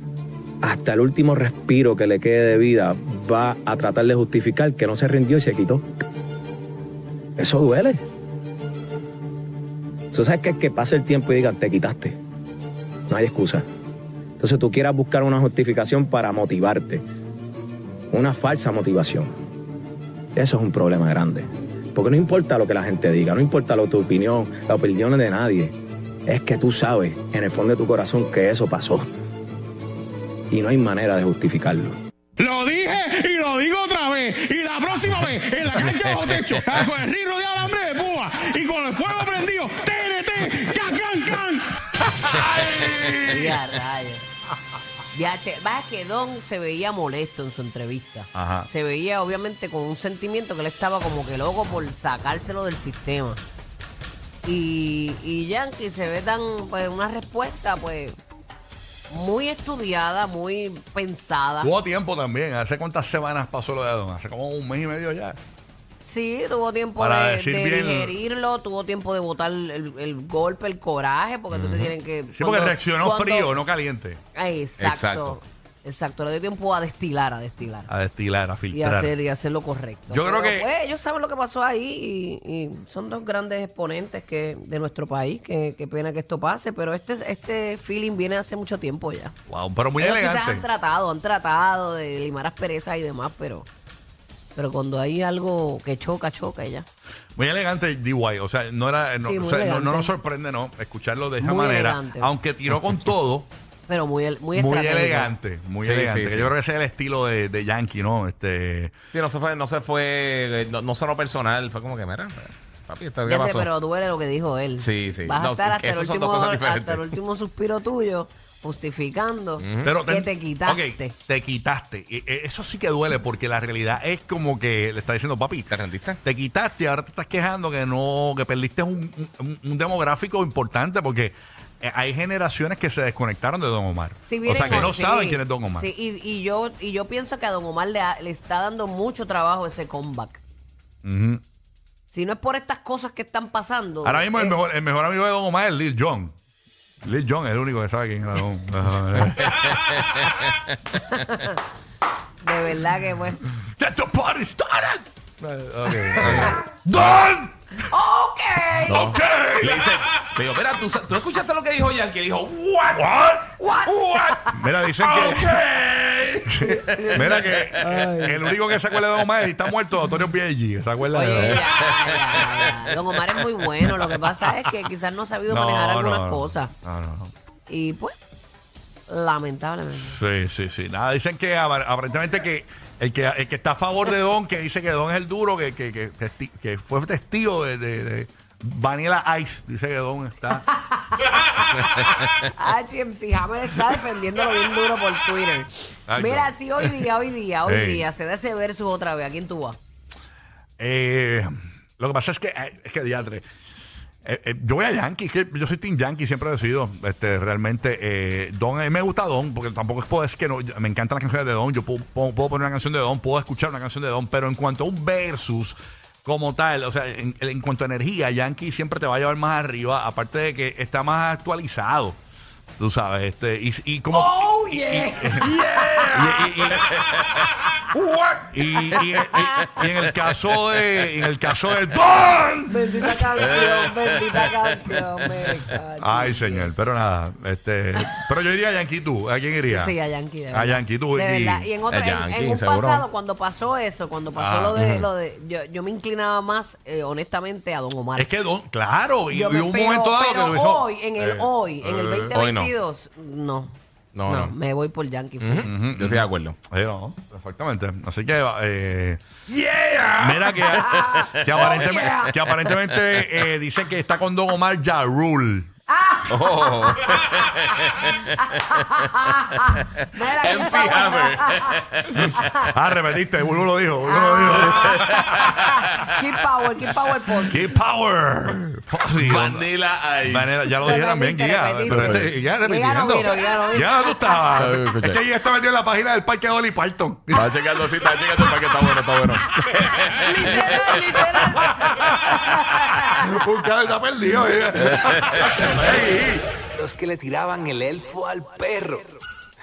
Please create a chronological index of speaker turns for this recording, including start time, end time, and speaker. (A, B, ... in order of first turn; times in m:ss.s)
0:00.6-0:05.8 A
0:07.4-0:08.0 A
0:10.1-0:12.2 A
0:13.1-0:13.6 A
0:14.4-0:17.0 A
0:18.1-0:19.3 A
0:20.4-0:25.7 A
0:26.3-0:29.1 A
0:30.5-0:31.9 A
0:32.4-0:41.6 B
0:35.8-0:36.6 C
0:42.2-0:43.5 D
0:42.6-0:43.2 C
0:43.3-0:44.2 E
0:45.1-0:53.4 E
0:48.4-0:48.7 D
0:54.4-0:58.1 E
0:59.1-1:01.7 E
1:01.6-1:05.4 D
1:06.0-1:13.6 E
1:07.0-1:08.2 D
1:11.5-1:11.9 C
1:12.3-1:14.2 D
1:14.3-1:17.9 E
1:14.8-1:15.4 C
1:17.9-1:19.1 D
1:18.7-1:29.3 E
1:20.1-1:20.7 D
1:29.5-1:30.6 D
1:30.0-1:33.7 E
1:34.5-1:36.9 E
1:37.4-1:43.5 D
1:39.2-1:40.1 E
1:41.4-1:42.3 E
1:43.9-1:45.3 E
1:44.5-1:48.9 D
1:45.8-1:46.5 C
1:49.1-1:53.7 C
1:53.2-2:01.2 E
1:54.8-1:57.1 C
1:59.6-1:59.9 C
1:59.8-2:15.9 D
2:05.7-2:06.2 C
2:14.2-2:20.4 E
2:14.6-2:14.9 C
2:21.0-2:21.4 D
2:22.1-2:24.6 E
2:24.0-2:26.4 D
2:27.0-2:29.4 D
2:29.4-2:30.4 C
2:32.4-2:33.4 E
2:33.6-2:37.6 D
2:36.2-2:37.3 C
2:37.9-2:39.2 E
2:38.8-2:40.0 D
2:38.9-2:43.0 C
2:43.0-2:45.6 D
2:43.6-2:44.6 E
2:45.0-2:47.7 C
2:46.5-2:51.6 D
2:46.8-2:47.2 E
2:47.8-2:48.4 E
2:51.1-2:56.7 E
2:51.4-2:52.4 C
2:55.5-2:57.3 D
2:57.7-2:58.2 E
2:59.1-3:00.2 E
3:00.0-3:10.6 D
3:10.6-3:19.8 E
3:16.1-3:16.9 D
3:17.7-3:18.1 D
3:20.8-3:23.4 D
3:24.2-3:42.2 D
3:42.8-3:47.0 D
3:44.1-3:46.1 E
3:46.9-3:47.4 C
3:48.2-3:53.3 D
3:48.9-3:49.4 C
3:52.7-3:56.7 E
3:53.4-3:54.0 C
3:56.0-3:59.9 D
3:59.7-4:08.3 E
4:00.5-4:01.7 D
4:01.9-4:03.0 C
4:04.4-4:04.8 D
4:04.7-4:05.1 C
4:08.2-4:12.3 D
4:09.3-4:13.7 E
4:12.3-4:12.7 C
4:14.1-4:14.5 C
4:14.3-4:15.7 E
4:15.4-4:16.6 C
4:15.6-4:19.2 D
4:19.5-4:22.0 C
4:20.2-4:25.7 D
4:20.5-4:22.7 E
4:25.9-4:27.2 E
4:26.3-4:29.8 C
4:28.4-4:31.6 E
4:30.4-4:32.6 C
4:32.7-4:35.4 D
4:34.0-4:37.7 E
4:34.5-4:35.8 C
4:37.5-4:39.7 D
4:39.2-4:40.7 C
4:40.2-4:47.7 D
4:40.8-4:44.5 E
4:41.9-4:42.3 C
4:44.6-4:45.2 C
4:47.3-4:50.9 C
4:50.1-4:53.2 E
4:50.5-4:51.0 D
4:51.6-4:56.5 D
4:54.8-4:55.6 C
4:56.8-4:59.0 F